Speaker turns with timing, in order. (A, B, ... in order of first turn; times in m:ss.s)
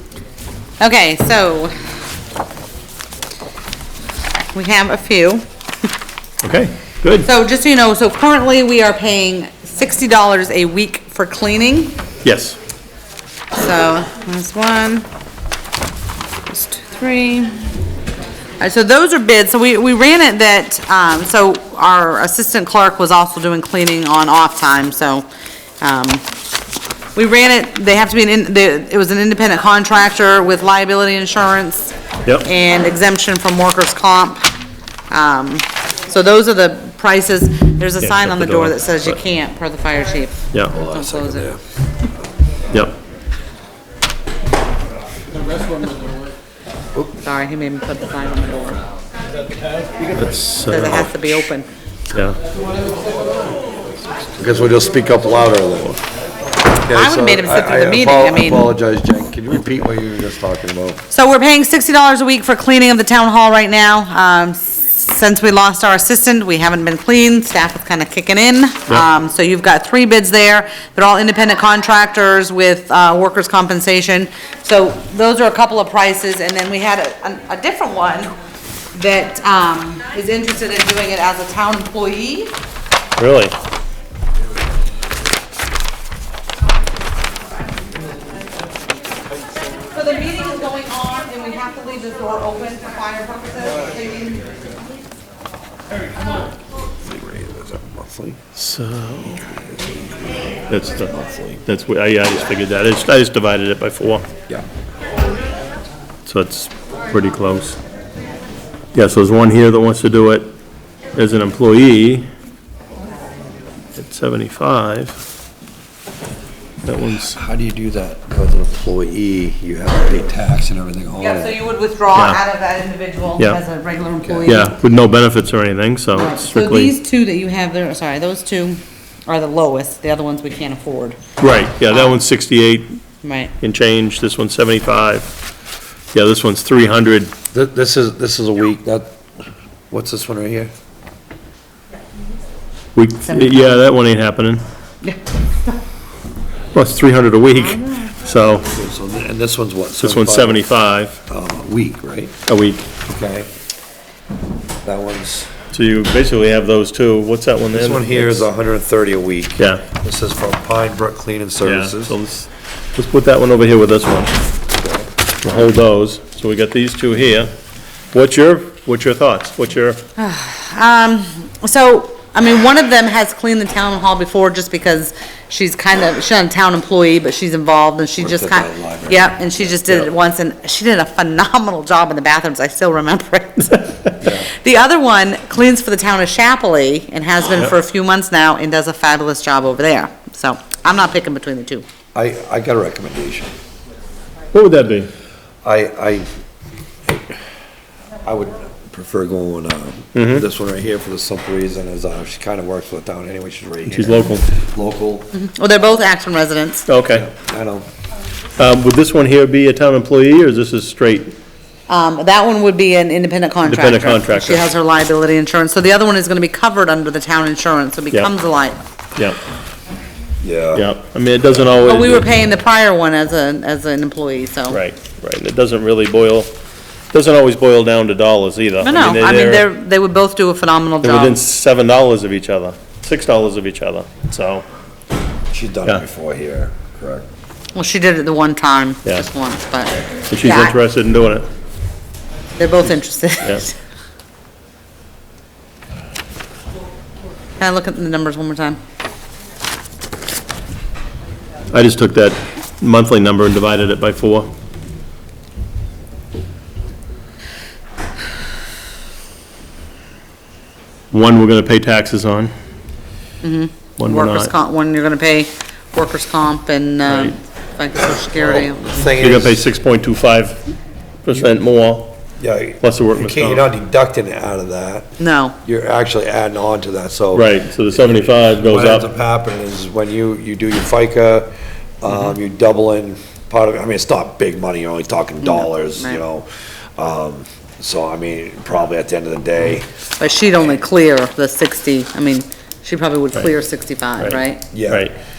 0:00.8-0:01.7 A
0:04.5-0:05.4 A
0:06.4-0:07.3 B
0:07.2-0:12.0 A
0:12.2-0:12.6 B
0:13.6-0:15.1 A
0:16.5-0:17.6 A
0:18.6-0:25.2 A
0:25.8-0:26.2 A
0:27.1-0:34.5 A
0:35.1-0:41.5 A
0:38.0-0:39.2 B
0:40.7-0:41.6 C
0:47.2-0:48.8 A
0:50.1-0:51.4 B
0:50.7-0:51.7 A
0:54.4-0:56.0 C
0:56.8-1:01.0 C
0:56.9-0:58.8 A
1:01.1-1:18.3 A
1:18.9-1:22.5 A
1:23.2-1:23.5 B
1:29.9-1:34.5 A
1:37.0-1:38.4 C
1:38.5-1:39.5 B
1:39.3-1:40.2 C
1:40.7-1:41.1 B
1:41.0-1:41.6 C
1:41.6-1:44.3 B
1:46.2-1:47.8 B
1:48.9-1:50.5 B
1:51.2-1:52.3 B
1:54.0-1:55.2 B
1:56.8-1:57.4 B
1:57.3-2:01.6 C
2:01.2-2:04.7 A
2:02.1-2:02.4 B
2:04.2-2:04.5 C
2:04.4-2:06.9 B
2:06.1-2:11.2 A
2:11.4-2:13.0 B
2:11.9-2:12.2 A
2:13.2-2:13.5 A
2:13.6-2:15.3 B
2:16.1-2:17.3 B
2:17.5-2:19.1 C
2:19.9-2:20.7 C
2:22.9-2:24.6 B
2:23.2-2:23.8 A
2:26.7-2:28.7 B
2:27.5-2:28.1 A
2:28.7-2:30.7 C
2:30.0-2:31.2 B
2:31.3-2:32.3 C
2:32.5-2:32.9 B
2:33.0-2:33.5 C
2:34.8-2:35.5 C
2:35.7-2:38.5 B
2:37.7-2:42.2 C
2:39.6-2:39.8 B
2:41.6-2:44.3 B
2:44.8-2:45.1 C
2:45.4-2:47.5 B
2:48.1-2:50.0 B
2:50.2-3:11.8 A
2:58.2-2:59.8 C
3:04.2-3:04.5 C
3:12.1-3:13.5 C
3:14.5-3:15.1 B
3:15.6-3:16.3 C
3:17.1-3:17.4 C
3:18.2-3:25.3 C
3:20.1-3:20.4 B
3:23.9-3:24.4 B
3:25.3-3:26.8 A
3:26.9-3:27.3 B
3:27.1-3:27.8 C
3:28.6-3:31.3 B
3:31.9-3:38.8 A
3:33.7-3:34.7 B
3:40.4-3:40.8 C
3:40.7-3:42.3 B
3:41.7-3:44.8 A
3:44.7-3:46.5 B
3:47.1-3:49.6 B
3:48.8-3:51.4 A
3:51.0-3:54.6 B
3:55.5-3:57.3 C
3:57.7-4:00.8 A
4:00.3-4:01.5 B
4:02.6-4:03.8 A
4:07.6-4:08.8 A
4:11.7-4:14.5 B
4:21.1-4:22.5 B
4:23.4-4:28.8 A
4:24.0-4:24.5 B
4:27.0-4:27.3 B
4:28.4-4:29.6 C
4:29.0-4:30.7 B
4:31.2-4:32.2 B
4:32.4-4:41.5 C
4:32.8-4:33.6 B
4:35.2-4:35.6 A
4:37.3-4:39.1 B
4:42.0-4:49.9 C
4:45.4-4:46.2 A
4:50.2-4:54.6 A
4:54.2-4:55.1 B
4:54.7-4:55.1 C